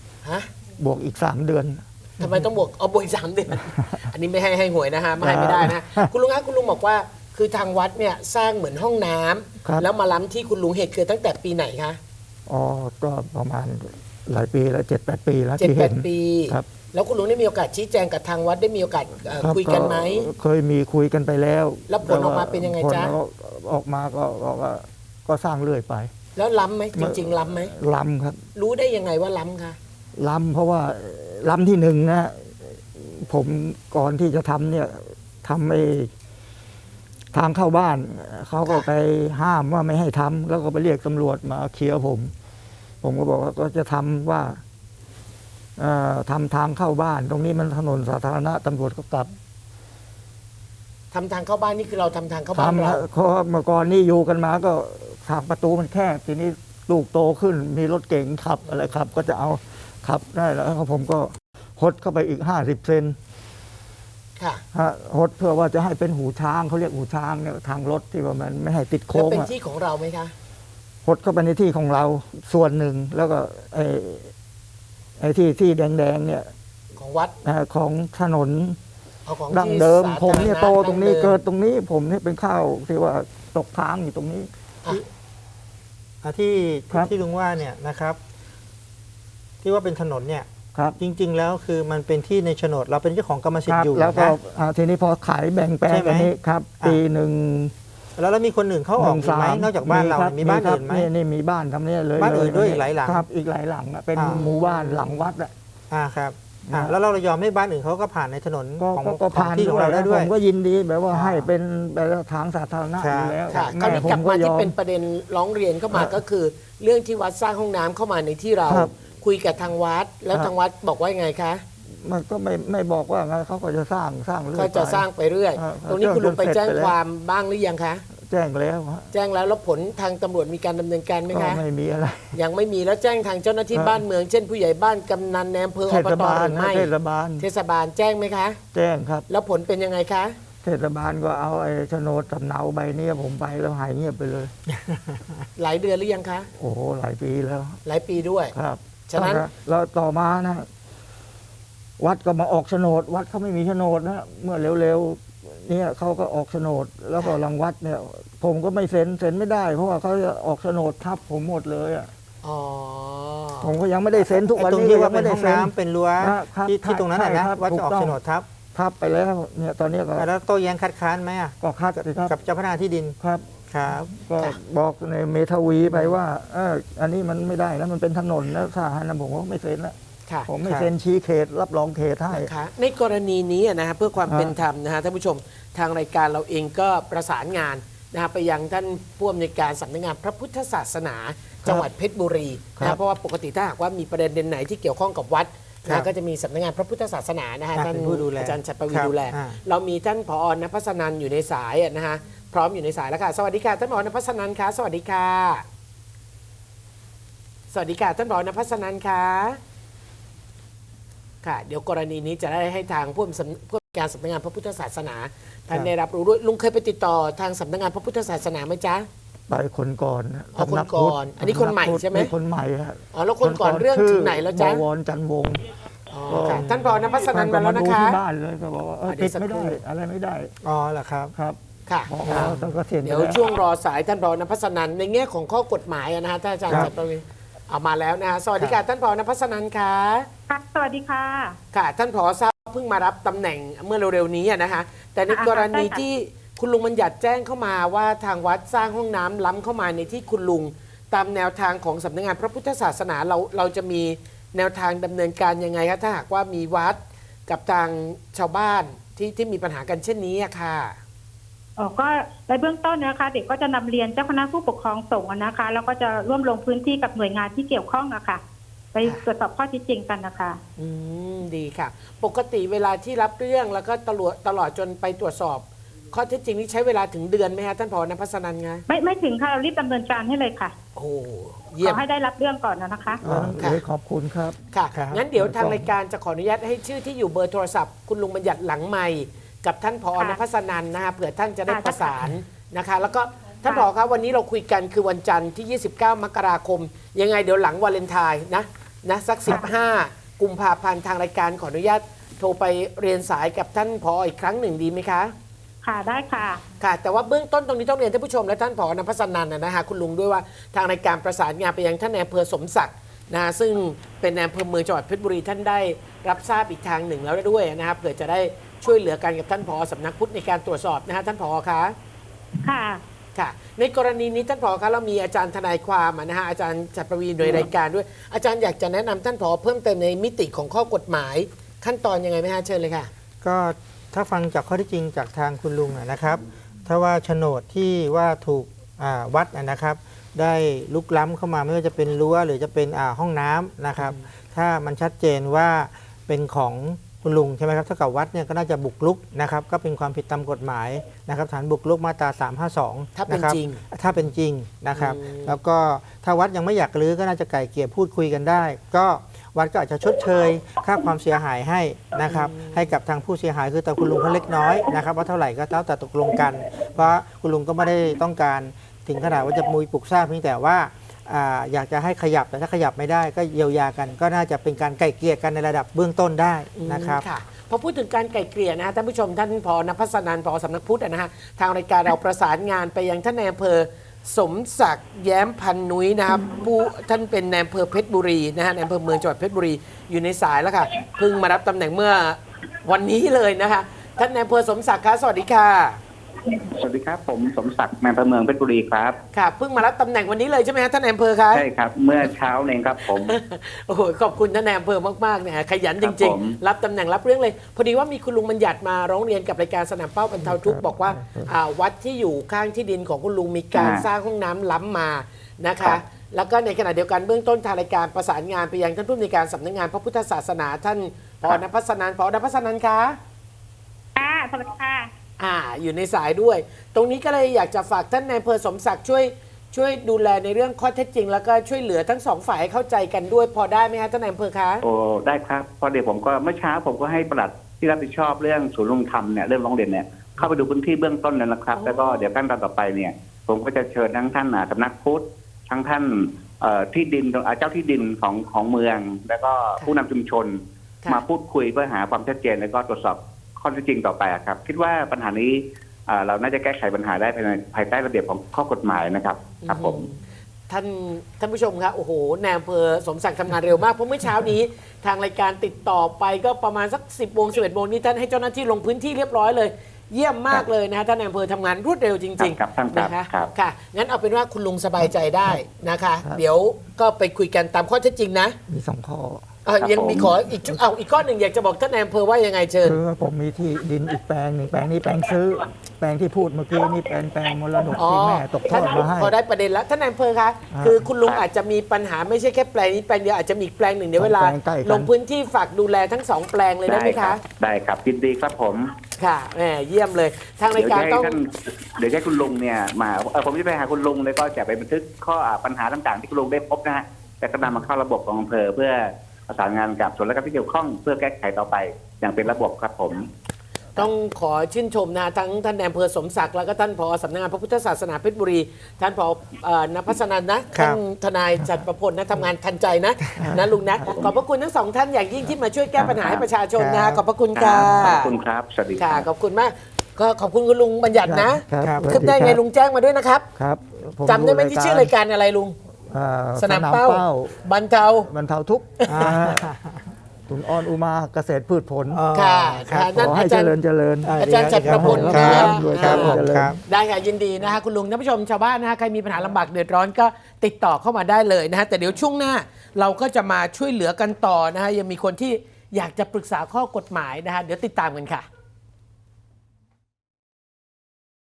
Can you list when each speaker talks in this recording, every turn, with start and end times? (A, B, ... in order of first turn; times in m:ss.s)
0:00.2-0:00.5 A
0:00.8-0:01.8 B
0:02.2-0:12.0 A
0:05.2-0:06.1 B
0:12.5-0:16.7 B
0:15.6-0:20.3 A
0:19.4-0:26.1 B
0:21.9-0:23.2 A
0:26.4-0:27.7 A
0:27.0-0:28.4 B
0:28.6-0:29.8 A
0:30.2-0:36.1 B
0:37.3-0:42.3 B
0:43.0-0:44.6 B
0:45.8-0:49.4 B
0:51.1-0:53.0 A
0:52.6-1:03.2 B
1:04.4-1:04.6 A
1:04.7-1:09.5 B
1:09.1-1:10.3 A
1:11.0-1:14.3 B
1:15.2-1:16.5 B
1:17.0-1:17.3 A
1:17.4-1:18.8 B
1:19.2-1:21.4 A
1:19.5-1:24.5 B
1:26.2-1:28.2 C
1:29.6-1:34.4 C
1:33.7-1:37.7 B
1:35.9-1:37.0 C
1:38.2-1:41.1 C
1:39.0-1:45.5 B
1:42.2-1:43.2 C
1:44.2-1:44.5 C
1:44.3-1:45.2 A
1:45.9-1:50.3 C
1:46.7-1:47.0 B
1:48.8-1:54.7 B
1:51.1-1:51.5 C
1:53.0-1:53.4 C
1:53.5-2:01.6 A
1:58.7-1:58.9 B
2:02.0-2:07.0 B
2:04.5-2:08.0 A
2:08.2-2:09.1 B
2:09.1-2:11.6 A
2:11.3-2:12.4 B
2:12.3-2:18.6 A
2:13.7-2:14.0 B
2:15.9-2:17.5 B
2:18.7-2:19.3 B
2:19.3-2:20.4 A
2:20.6-2:24.5 B
2:25.6-2:26.5 A
2:26.6-2:27.8 B
2:27.8-2:28.6 A
2:28.5-2:30.7 B
2:29.1-2:29.5 A
2:32.0-2:42.1 B
2:42.4-2:43.7 A
2:43.6-2:48.2 B
2:44.2-2:48.5 C
2:48.7-2:50.3 B
2:50.2-2:51.6 C
2:51.6-2:52.4 B
2:52.2-2:53.2 C
2:53.2-2:53.5 B
2:53.7-2:54.2 C
2:54.1-3:00.0 B
3:00.5-3:02.5 B
3:00.6-3:00.9 C
3:02.3-3:25.6 A
3:04.2-3:04.6 B
3:17.7-3:19.6 C
3:27.7-3:29.6 A
3:31.4-3:39.1 A
3:39.5-3:45.6 B
3:40.6-3:42.3 A
3:43.1-3:44.8 A
3:46.1-3:48.2 A
3:46.3-3:50.5 B
3:49.1-3:49.8 A
3:50.6-3:51.3 C
3:51.4-3:53.4 B
3:51.9-4:00.3 A
3:52.3-3:52.6 C
4:00.5-4:01.6 D
4:01.7-4:21.0 A
4:05.3-4:06.0 D
4:21.8-4:28.4 D
4:28.9-4:30.6 D
4:30.8-4:38.9 A
4:38.9-4:40.7 D
4:41.0-4:42.0 A
4:41.8-4:43.2 D
4:43.2-4:44.6 B
4:43.3-4:43.6 C
4:43.6-4:43.8 A
4:44.7-5:05.3 A
4:44.9-4:45.2 C
4:45.4-4:45.9 B
4:50.2-4:50.4 D
4:51.7-4:52.3 D
4:53.6-4:53.9 D
5:05.8-5:06.6 D
5:06.8-5:22.0 A
5:22.6-5:23.0 D
5:23.4-5:33.1 A
5:33.4-6:17.2 C
5:44.0-5:44.3 A
5:53.2-5:53.8 A
5:55.0-5:55.6 A
6:02.3-6:02.8 A
6:16.8-6:36.0 A
6:36.6-6:39.2 E
6:39.3-6:41.7 A
6:41.5-6:43.4 E
6:43.0-7:03.2 A
6:46.0-6:46.6 E
6:50.4-6:51.5 B
6:53.7-6:54.0 E
7:04.2-7:05.1 D
7:05.4-7:14.8 A
7:14.8-7:40.0 E
7:20.4-7:20.7 A
7:21.7-7:22.3 A
7:39.6-7:58.6 A
7:52.4-7:53.5 E
7:58.7-7:59.4 B
7:59.6-8:03.0 A
7:59.8-8:00.4 E
8:02.8-8:09.3 B
8:08.0-8:17.4 A
8:10.7-8:11.0 B
8:14.2-8:15.1 B
8:16.9-8:18.9 E
8:19.2-8:21.4 A
8:20.7-8:33.3 E
8:34.0-8:48.3 A
8:40.7-8:41.0 C
8:43.4-8:44.1 B
8:44.0-8:44.3 E
8:46.0-8:46.5 E
8:46.8-8:47.2 C
8:47.6-8:49.3 E
8:49.0-8:53.5 A
8:51.2-8:52.6 B
8:51.8-8:52.3 C
8:53.6-8:55.1 B
8:54.2-8:55.8 A
8:56.1-8:57.6 B
8:56.6-8:58.3 A
8:58.2-8:59.6 B
8:59.0-8:59.3 A
8:59.1-9:00.0 C
9:00.5-9:02.2 B
9:02.1-9:03.1 C
9:02.3-9:03.7 A
9:03.1-9:06.8 B
9:04.2-9:06.8 C
9:04.4-9:18.5 A